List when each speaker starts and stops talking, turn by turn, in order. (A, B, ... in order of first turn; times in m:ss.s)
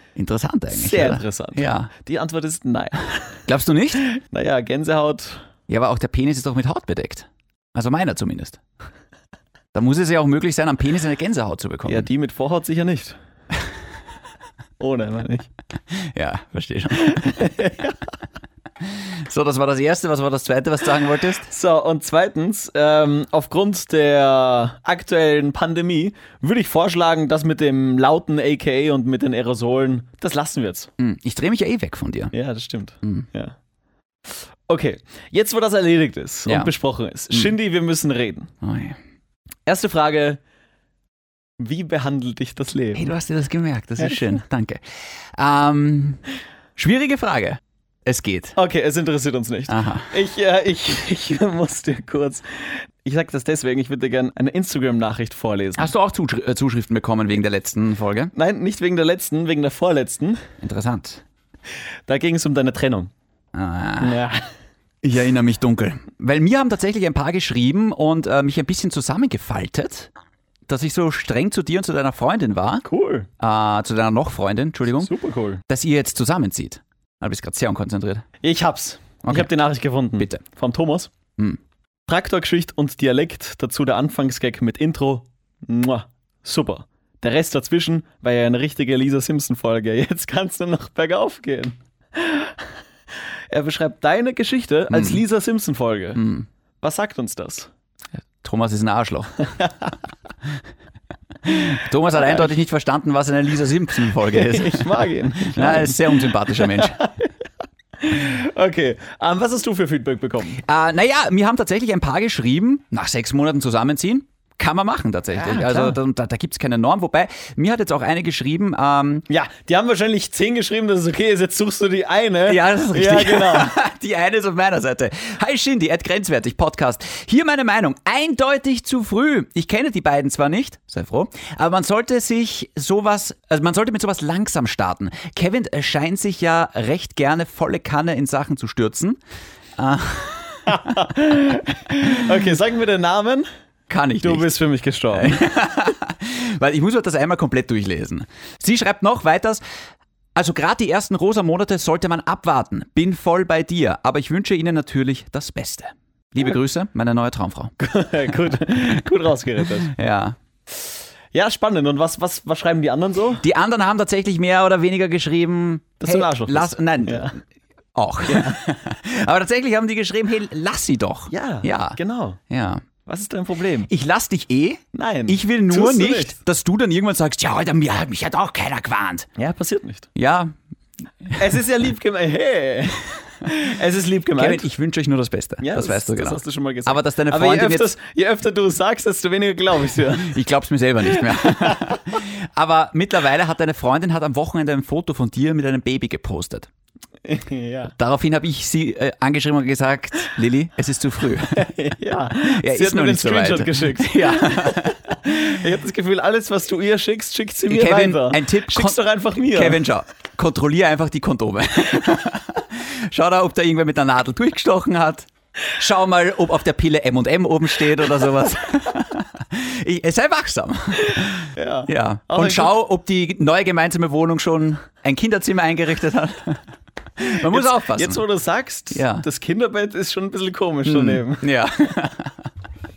0:00.2-0:01.9 A
0:00.7-0:03.4 B
0:03.5-0:04.0 A
0:04.0-0:05.4 B
0:05.7-0:08.6 A
0:09.7-0:12.1 A
0:11.8-0:13.2 B
0:14.8-0:15.5 B
0:15.9-0:17.5 A
0:17.0-0:18.0 B
0:18.8-0:21.5 A
0:21.5-0:30.9 B
0:31.0-0:32.3 A
0:32.3-0:33.6 B
0:34.3-0:38.5 B
0:36.4-0:36.7 A
0:38.6-0:39.0 A
0:39.7-0:40.4 B
0:41.6-0:43.1 B
0:42.9-0:46.2 A
0:46.8-0:48.5 A
0:48.6-0:55.9 B
0:49.7-0:50.1 A
0:55.8-0:58.3 A
0:58.3-1:00.4 B
1:00.6-1:01.2 A
1:02.1-1:03.1 B
1:03.5-1:04.2 A
1:04.0-1:04.5 B
1:05.0-1:10.1 A
1:10.7-1:12.8 A
1:12.8-1:13.3 B
1:13.4-1:15.1 A
1:15.0-1:15.6 B
1:15.7-1:18.2 A
1:18.4-1:21.1 B
1:19.2-1:19.5 A
1:22.1-1:32.7 B
1:33.5-1:36.2 B
1:34.9-1:35.2 A
1:36.2-1:36.5 A
1:36.8-1:37.7 B
1:38.4-1:39.4 A
1:39.4-1:39.9 B
1:41.4-1:47.0 A
1:44.3-1:47.3 B
1:48.0-1:50.6 B
1:50.6-1:59.2 A
1:55.3-1:56.0 B
1:59.3-2:03.8 B
2:02.4-2:19.2 A
2:19.8-2:20.8 A
2:20.7-2:23.5 B
2:23.9-2:24.5 A
2:24.2-2:25.4 B
2:25.1-2:29.6 A
2:30.3-2:37.7 A
2:37.8-2:39.9 B
2:39.6-2:40.4 A
2:40.7-2:43.4 B
2:43.4-2:47.4 A
2:46.0-2:47.3 B
2:47.9-2:52.8 A
2:48.2-2:48.6 B
2:51.3-2:52.4 B
2:53.0-2:53.9 B
2:53.9-2:59.3 A
2:54.9-2:56.4 B
2:59.4-3:00.1 B
3:00.1-3:00.5 A
3:01.4-3:04.6 B
3:04.4-3:07.9 A
3:05.6-3:10.4 B
3:10.2-3:16.7 A
3:11.4-3:11.9 B
3:17.2-3:17.9 B
3:17.9-3:21.7 A
3:21.5-3:29.8 B
3:22.4-3:25.4 A
3:27.7-3:46.6 A
3:41.5-3:42.7 B
3:47.2-3:48.2 A
3:47.3-3:51.5 B
3:48.9-3:49.2 A
3:50.8-3:52.4 A